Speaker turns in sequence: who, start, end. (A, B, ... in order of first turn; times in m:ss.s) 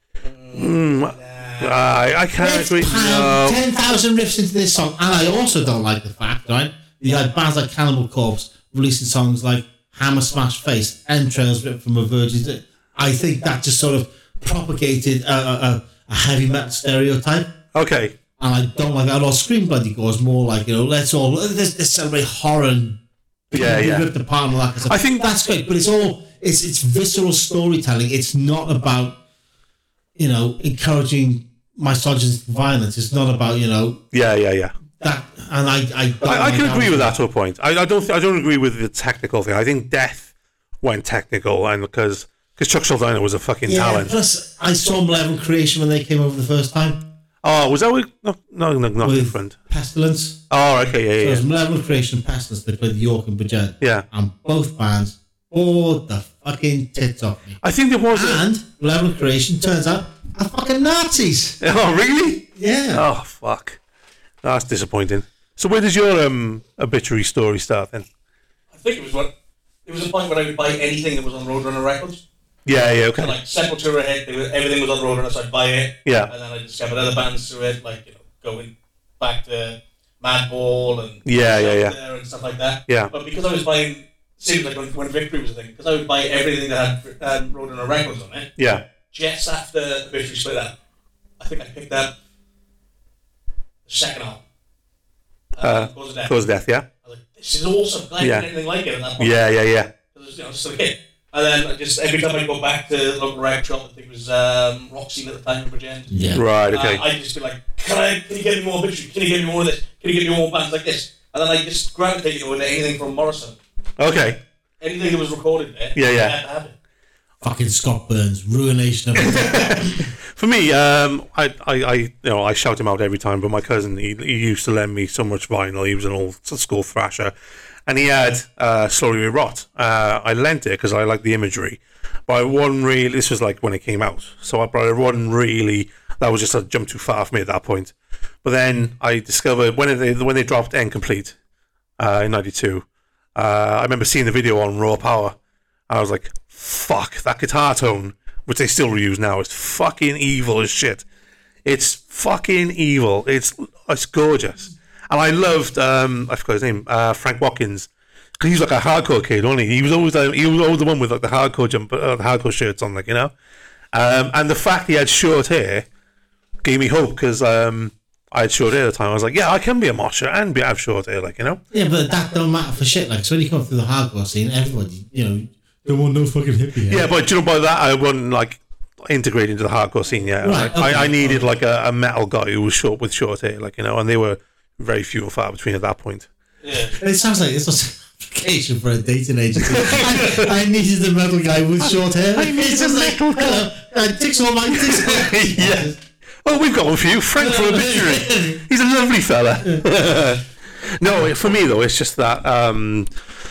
0:00.2-0:02.0 A
0:00.5-0:03.6 B
0:02.4-0:17.5 C
0:17.7-0:18.1 B
0:18.4-0:23.0 C
0:23.5-0:29.2 C
0:23.5-0:24.1 B
0:24.9-0:25.2 B
0:30.2-0:34.0 C
0:34.1-0:34.7 B
0:35.0-0:37.2 C
0:36.2-0:40.3 B
0:40.8-0:44.1 B
0:43.6-0:47.0 C
0:47.4-0:49.5 B
0:49.0-0:50.4 C
0:50.5-0:51.4 B
0:51.2-0:57.6 C
0:57.6-0:58.4 B
0:58.1-1:01.6 C
1:01.6-1:03.8 B
1:02.5-1:03.0 C
1:04.4-1:08.1 B
1:08.7-1:09.3 A
1:09.8-1:12.2 A
1:12.6-1:13.3 B
1:13.1-1:28.5 A
1:16.0-1:16.3 B
1:21.2-1:21.9 B
1:28.6-1:28.8 B
1:29.1-1:30.7 A
1:31.4-1:32.1 A
1:33.9-1:34.4 A
1:35.5-1:36.3 A
1:35.6-1:36.8 B
1:37.0-1:46.1 A
1:38.2-1:38.5 B
1:39.2-1:39.9 B
1:46.1-1:46.4 C
1:46.3-1:47.0 B
1:46.7-1:53.6 A
1:54.0-1:54.4 B
1:54.8-1:56.7 A
1:55.9-1:56.3 B
1:57.4-2:00.0 C
1:59.2-2:07.3 B
2:07.9-2:21.3 B
2:22.0-2:25.4 B
2:25.9-2:31.0 B
2:31.6-2:37.9 B
2:38.4-2:43.3 B
2:43.9-2:45.8 B
2:46.6-2:51.6 B
2:51.7-2:57.1 C
2:56.9-3:06.3 B
3:00.4-3:01.5 C
3:06.6-3:07.0 A
3:06.9-3:16.0 C
3:09.6-3:10.5 B
3:11.8-3:13.6 B
3:14.7-3:15.9 B
3:16.4-3:20.4 B
3:17.4-3:18.6 C
3:21.0-3:23.1 B